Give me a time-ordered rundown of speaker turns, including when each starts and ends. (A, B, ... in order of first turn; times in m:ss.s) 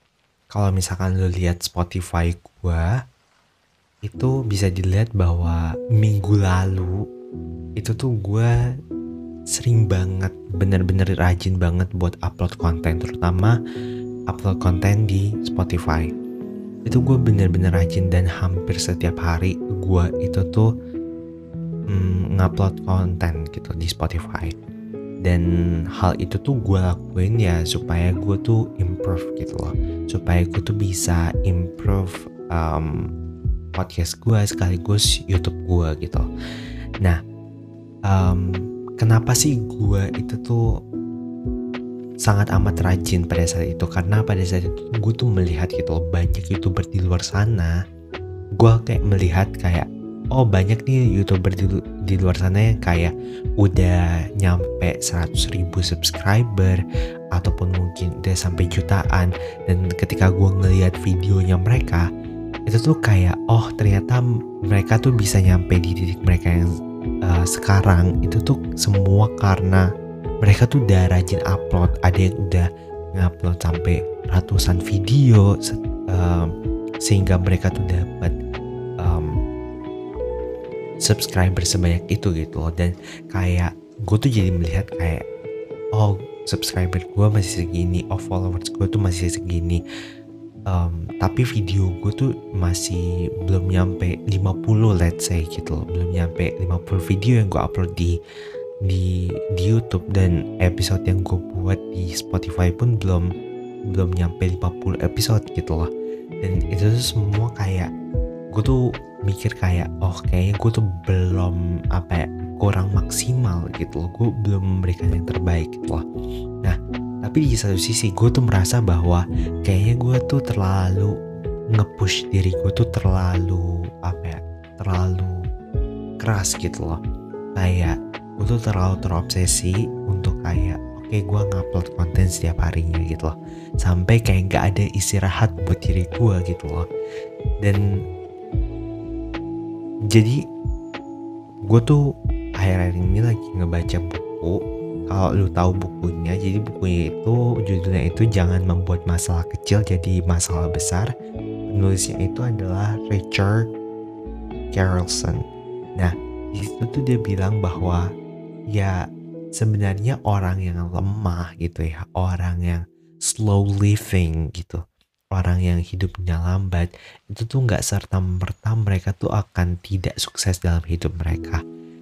0:00.5-0:02.9 A
0:04.0-0:06.9 A
0:07.8-0:08.5 A
0:09.6-0:13.5 A
0:14.3-0:16.1 A
0:16.9-0:20.7 A
0:21.9-0:24.5 A
0:25.2-0:33.0 A
0:33.8-0:36.2 A
0:38.1-0:40.6 A
0:42.2-0:47.7 A
0:48.6-0:56.8 A
0:57.3-1:02.0 A
1:02.7-1:06.6 A
1:07.2-1:09.8 A
1:10.4-1:16.5 A
1:17.0-1:18.3 A
1:19.0-1:19.3 A
1:21.0-1:25.2 A
1:26.0-1:29.8 A
1:30.7-1:38.2 A
1:38.8-1:43.3 A
1:43.9-1:45.9 A
1:46.4-1:47.9 A
1:48.5-1:56.0 A
1:56.6-2:01.1 A
2:01.7-2:05.3 A
2:06.2-2:07.0 A
2:07.6-2:16.8 A
2:20.1-2:20.4 A
2:21.7-2:22.0 A
2:22.6-2:24.6 A
2:25.1-2:31.1 A
2:31.7-2:33.7 A
2:34.7-2:35.4 A
2:36.0-2:38.0 A
2:39.6-2:44.8 A
2:45.3-2:51.6 A